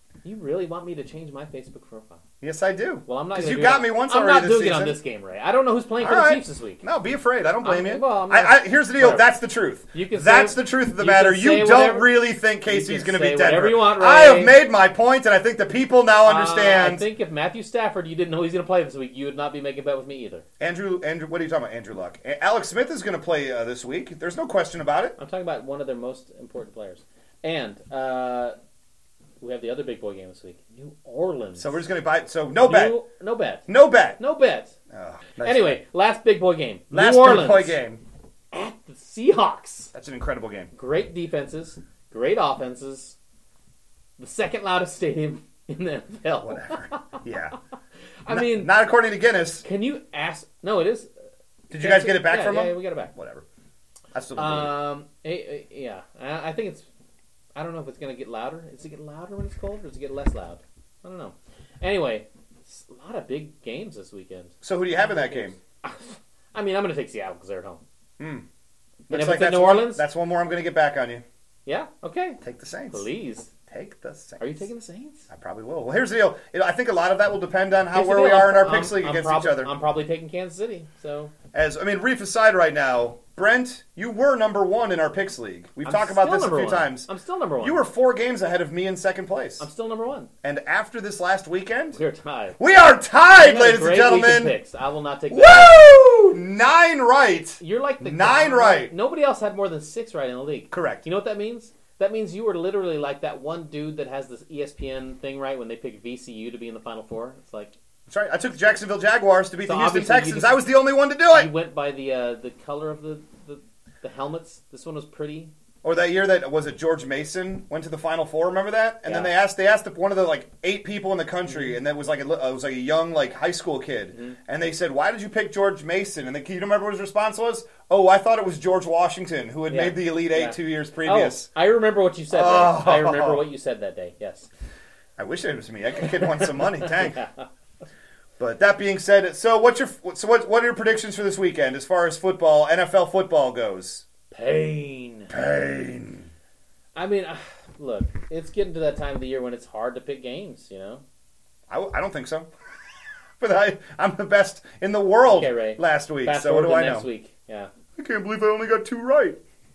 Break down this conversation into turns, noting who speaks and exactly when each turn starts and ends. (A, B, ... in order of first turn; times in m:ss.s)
0:00.2-0:02.2 A
0:02.4-0:05.0 B
0:03.0-0:06.8 A
0:06.0-0:17.0 B
0:07.6-0:09.3 A
0:09.9-0:12.1 A
0:12.6-0:14.5 A
0:16.2-0:20.4 A
0:20.6-0:25.2 B
0:25.2-0:28.5 A
0:29.4-0:31.8 A
0:31.6-0:33.0 B
0:32.6-0:34.7 A
0:33.7-0:34.2 B
0:34.9-0:35.8 B
0:35.4-0:37.8 A
0:36.9-0:38.0 B
0:38.5-0:39.9 A
0:39.9-0:40.7 B
0:40.7-0:43.2 A
0:44.2-0:47.2 A
0:46.4-0:47.6 B
0:48.2-0:48.7 A
0:48.3-0:49.6 B
0:49.6-0:51.1 A
0:51.7-0:53.4 B
0:51.8-0:53.1 A
0:54.1-0:54.8 B
0:54.4-0:56.8 A
0:57.5-1:07.8 A
1:04.6-1:05.6 B
1:08.2-1:08.4 B
1:09.1-1:11.2 B
1:09.1-1:10.0 A
1:11.6-1:12.4 A
1:12.4-1:13.0 B
1:12.9-1:13.5 A
1:13.7-1:14.6 B
1:14.4-1:15.3 A
1:15.3-1:19.7 B
1:17.9-1:21.3 A
1:21.5-1:27.1 B
1:25.8-1:27.8 A
1:27.6-1:29.6 B
1:29.6-1:30.3 A
1:30.4-1:32.0 B
1:31.9-1:32.6 A
1:32.6-1:34.6 B
1:33.4-1:35.8 A
1:35.3-1:38.9 B
1:37.6-1:47.7 A
1:40.7-1:41.0 B
1:48.1-1:51.5 B
1:49.6-1:50.6 A
1:51.3-1:55.5 A
1:55.8-2:11.5 B
1:59.0-1:59.3 A
2:01.5-2:01.8 A
2:04.1-2:04.4 A
2:09.7-2:14.5 A
2:12.3-2:13.4 B
2:15.2-2:17.2 B
2:16.3-2:17.4 A
2:18.4-2:24.0 B
2:24.3-2:25.3 A
2:25.3-2:26.3 B
2:27.0-2:31.0 A
2:31.7-2:32.5 B
2:33.4-2:37.1 B
2:35.2-2:37.7 A
2:38.0-2:39.4 B